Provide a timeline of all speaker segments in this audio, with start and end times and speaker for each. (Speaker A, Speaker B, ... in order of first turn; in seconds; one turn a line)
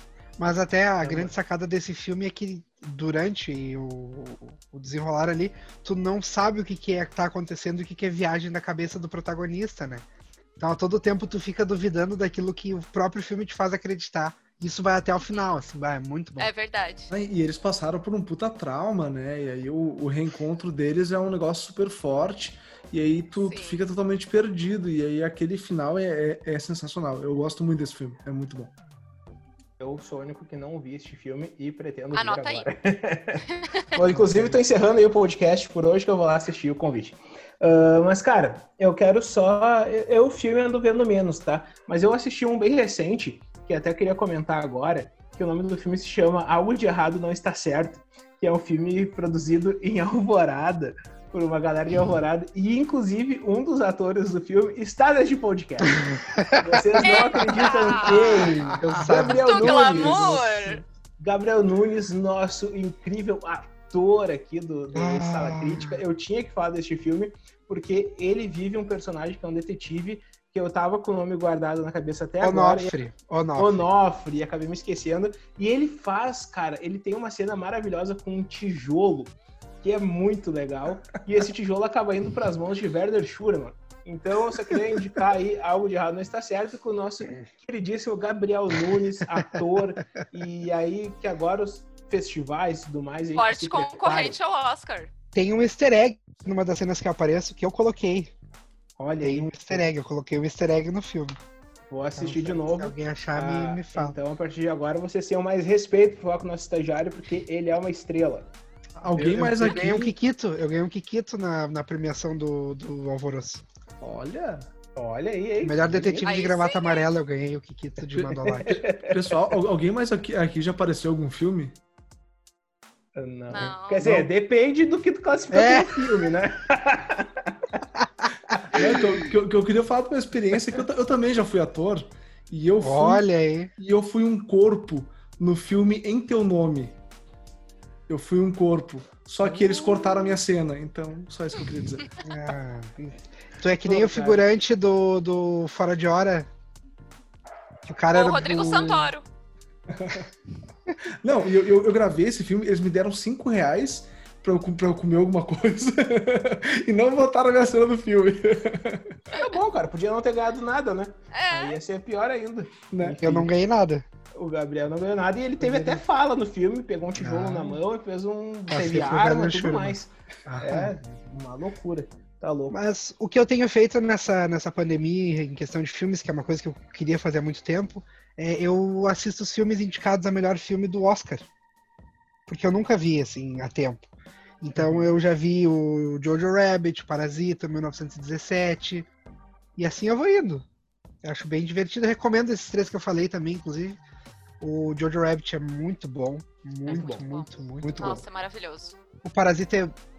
Speaker A: 0.4-10.0
Speaker B: 1.0-1.3
Speaker A: 10.6-16.5
Speaker C: 16.4-17.1
Speaker D: 17.1-28.7
Speaker C: 23.4-23.8
Speaker B: 29.8-73.0
Speaker C: 32.1-32.7
Speaker C: 33.5-33.8
Speaker D: 34.1-34.5
Speaker C: 57.0-58.5
Speaker A: 58.0-60.4
Speaker D: 58.1-59.3
Speaker C: 59.3-60.8
Speaker A: 64.9-66.0
Speaker A: 72.4-73.8
Speaker B: 73.6-94.4
Speaker C: 93.3-95.1
Speaker A: 95.3-98.3
Speaker B: 99.0-99.8
Speaker A: 99.2-101.4
Speaker B: 101.9-108.5
Speaker A: 102.2-104.2
Speaker D: 109.0-110.1
Speaker A: 109.2-113.6
Speaker D: 114.0-114.7
Speaker B: 114.9-116.3
Speaker A: 115.6-118.7
Speaker C: 116.2-117.0
Speaker D: 118.1-121.7
Speaker B: 118.4-119.4
Speaker B: 123.1-127.8
Speaker C: 123.5-124.0
Speaker A: 125.5-126.1
Speaker D: 128.7-137.0
Speaker B: 128.7-129.0
Speaker A: 132.8-133.7
Speaker D: 138.1-142.1
Speaker A: 142.2-146.5
Speaker B: 143.8-144.4
Speaker A: 147.8-149.1
Speaker C: 148.1-149.2
Speaker D: 149.9-150.3
Speaker D: 151.2-159.2
Speaker B: 159.3-163.5
Speaker C: 161.3-161.8
Speaker D: 162.9-163.2
Speaker A: 163.2-164.0
Speaker B: 164.3-172.8
Speaker A: 165.6-166.0
Speaker A: 167.2-167.8
Speaker A: 168.7-170.9
Speaker A: 172.7-181.4
Speaker A: 182.5-184.1
Speaker A: 184.6-189.1
Speaker A: 189.8-190.6
Speaker A: 191.2-194.0
Speaker A: 194.6-198.1
Speaker C: 196.9-198.9
Speaker B: 196.9-197.2
Speaker D: 197.8-198.2
Speaker A: 199.2-199.9